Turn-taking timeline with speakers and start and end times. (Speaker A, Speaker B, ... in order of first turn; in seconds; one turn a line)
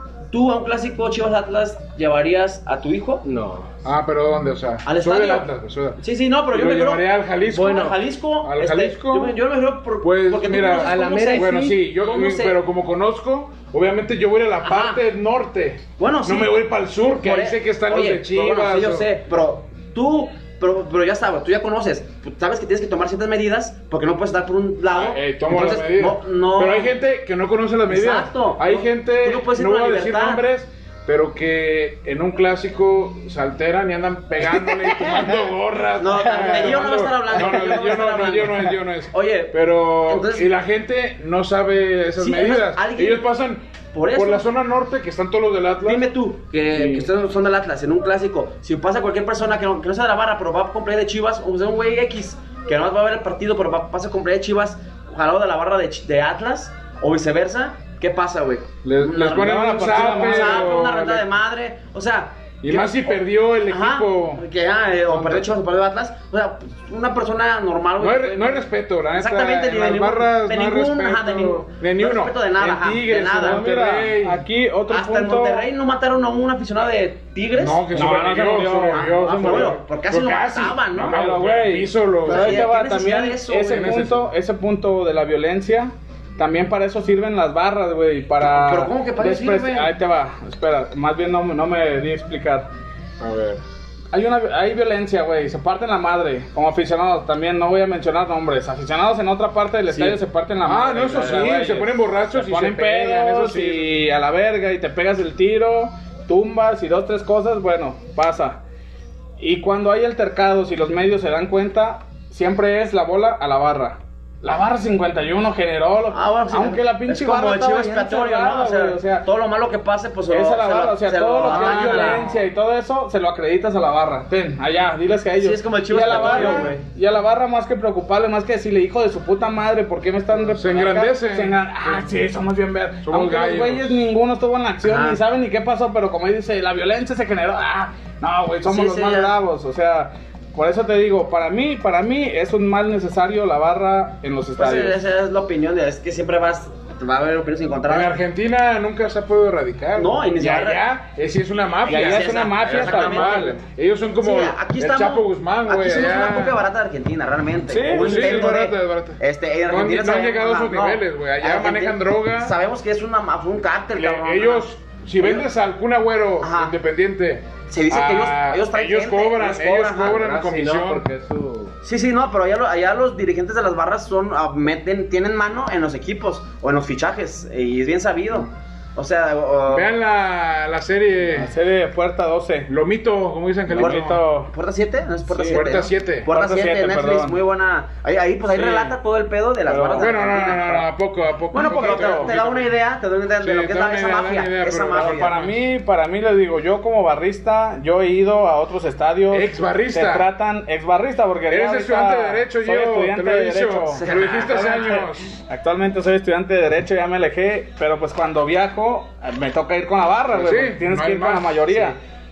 Speaker A: 0.3-3.2
Speaker B: 3.2-3.7
Speaker C: 3.9-6.0
Speaker A: 4.8-12.6
Speaker C: 6.5-9.4
Speaker B: 7.6-8.0
Speaker C: 10.0-19.1
Speaker B: 10.7-11.8
Speaker A: 14.6-15.0
Speaker A: 16.0-16.6
Speaker A: 17.2-27.0
Speaker C: 24.9-46.0
Speaker A: 27.9-30.4
Speaker A: 36.0-40.5
Speaker A: 42.2-43.2
Speaker A: 43.9-44.5
Speaker A: 45.9-73.6
Speaker C: 46.7-47.1
Speaker C: 58.8-61.3
Speaker D: 59.3-60.8
Speaker C: 62.6-64.4
Speaker C: 65.1-65.5
Speaker C: 68.0-74.4
Speaker D: 73.3-75.7
Speaker A: 74.9-78.1
Speaker C: 77.6-82.7
Speaker D: 77.9-79.8
Speaker A: 78.9-81.3
Speaker D: 81.0-92.7
Speaker A: 82.3-84.0
Speaker C: 83.7-84.3
Speaker A: 88.4-89.9
Speaker C: 93.2-93.6
Speaker D: 94.1-108.6
Speaker C: 99.9-104.0
Speaker D: 109.4-119.2
Speaker A: 116.1-122.3
Speaker D: 120.3-145.0
Speaker C: 121.5-122.4
Speaker A: 125.4-126.8
Speaker C: 126.1-126.7
Speaker C: 130.5-132.0
Speaker C: 133.0-134.0
Speaker A: 134.8-135.2
Speaker A: 138.7-139.3
Speaker A: 144.6-148.1
Speaker C: 147.9-156.7
Speaker A: 149.9-150.9
Speaker A: 151.8-153.6
Speaker D: 151.9-153.6
Speaker A: 154.2-164.7
Speaker D: 157.7-158.5
Speaker C: 157.9-162.6
Speaker C: 164.0-171.1
Speaker A: 165.2-165.5
Speaker A: 166.4-166.8
Speaker A: 167.7-170.2
Speaker B: 170.1-171.8
Speaker A: 171.8-179.9
Speaker C: 179.7-181.5
Speaker D: 181.3-182.7
Speaker C: 182.7-184.2
Speaker D: 183.7-184.5
Speaker A: 183.8-190.9
Speaker D: 185.3-185.7
Speaker C: 185.4-186.3
Speaker D: 186.3-187.4
Speaker C: 188.6-188.9
Speaker D: 189.7-190.6
Speaker C: 189.9-192.7
Speaker A: 191.5-195.4
Speaker D: 191.6-192.3
Speaker C: 193.4-195.7
Speaker D: 194.9-212.0
Speaker C: 199.3-200.3
Speaker C: 201.5-205.4
Speaker A: 203.9-204.9
Speaker C: 210.3-211.7